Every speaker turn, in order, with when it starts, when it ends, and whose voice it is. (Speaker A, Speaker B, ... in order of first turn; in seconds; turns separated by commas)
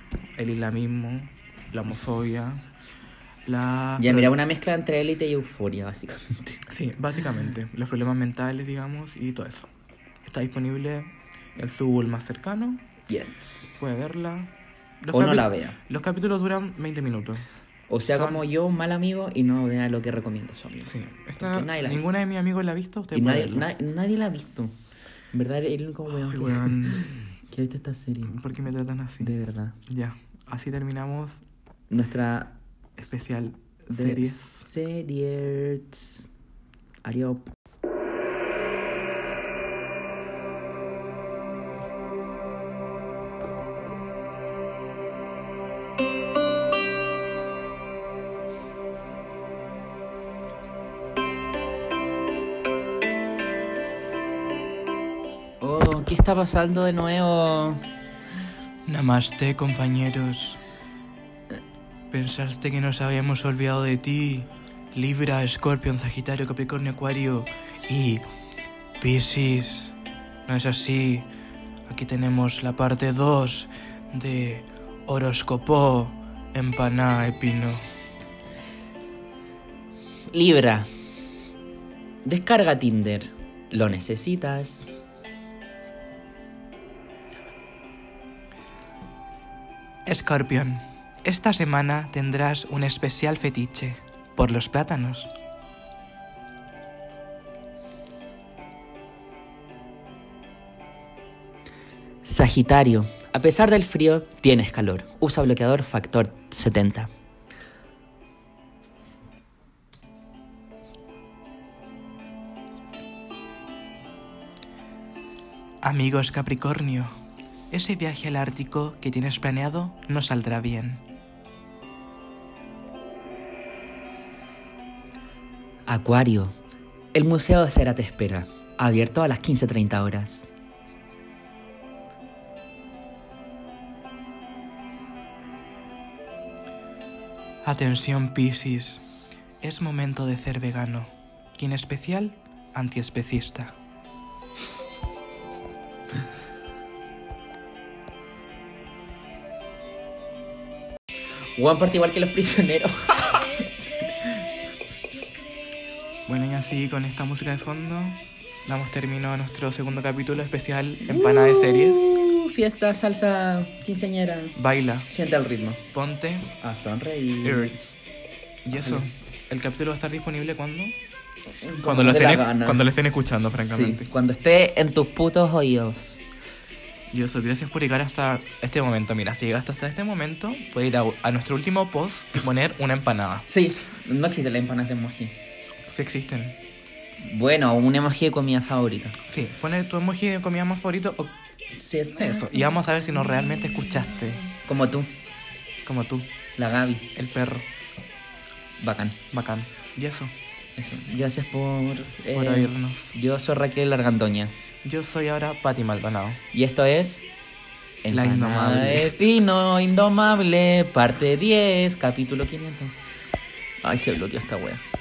Speaker A: 0.4-2.6, Speaker A: 3.5-4.3, Speaker B: 4.0-6.6, Speaker A: 6.7-9.7, Speaker A: 10.2-12.8, Speaker B: 13.1-13.8, Speaker A: 13.8-14.5, Speaker A: 15.0-17.4, Speaker B: 15.1-15.8, Speaker B: 17.9-22.1, Speaker A: 18.0-18.4, Speaker A: 20.8-23.7, Speaker B: 23.1-24.7, Speaker B: 25.3-28.4, Speaker A: 26.1-27.3, Speaker A: 28.2-29.3, Speaker B: 29.2-29.8, Speaker A: 29.9-31.4, Speaker B: 31.9-32.5, Speaker A: 33.0-34.6, Speaker B: 33.9-36.3, Speaker B: 37.0-37.5, Speaker B: 55.6-57.9, Speaker A: 58.9-60.6, Speaker A: 62.1-68.2, Speaker A: 69.0-69.9, Speaker A: 70.5-71.3, Speaker A: 71.9-77.9, Speaker B: 80.3-80.9, Speaker B: 82.2-84.9, Speaker A: 90.0-95.3, Speaker B: 102.2-107.1, Speaker A: 115.8-117.1, Speaker A: 117.7-121.0, Speaker B: 125.8-126.5, Speaker B: 127.1-130.5, Speaker A: 137.6-139.0, Speaker A: 139.6-143.7, Speaker B: 151.6-154.1, Speaker A: 156.3-162.1, Speaker B: 161.1-164.6, Speaker A: 164.6-165.1, Speaker B: 165.1-165.8, Speaker A: 165.9-166.5, Speaker B: 166.6-167.7, Speaker A: 167.4-168.0, Speaker A: 168.6-170.9, Speaker B: 168.7-169.0, Speaker B: 171.6-172.9, Speaker A: 171.8-174.1, Speaker B: 173.5-176.2, Speaker A: 177.1-183.5, Speaker B: 183.5-185.3, Speaker A: 185.9-186.6, Speaker B: 187.2-189.2, Speaker A: 189.3-191.3, Speaker B: 191.7-195.1, Speaker A: 192.1-194.4, Speaker A: 195.8-196.3, Speaker B: 196.6-197.1, Speaker A: 197.1-197.6, Speaker B: 198.8-199.2, Speaker A: 199.3-200.3, Speaker B: 200.8-204.5, Speaker A: 202.3-203.2, Speaker A: 204.8-206.4, Speaker B: 206.5-207.2, Speaker B: 208.0-212.9, Speaker A: 208.1-209.1, Speaker B: 213.8-214.8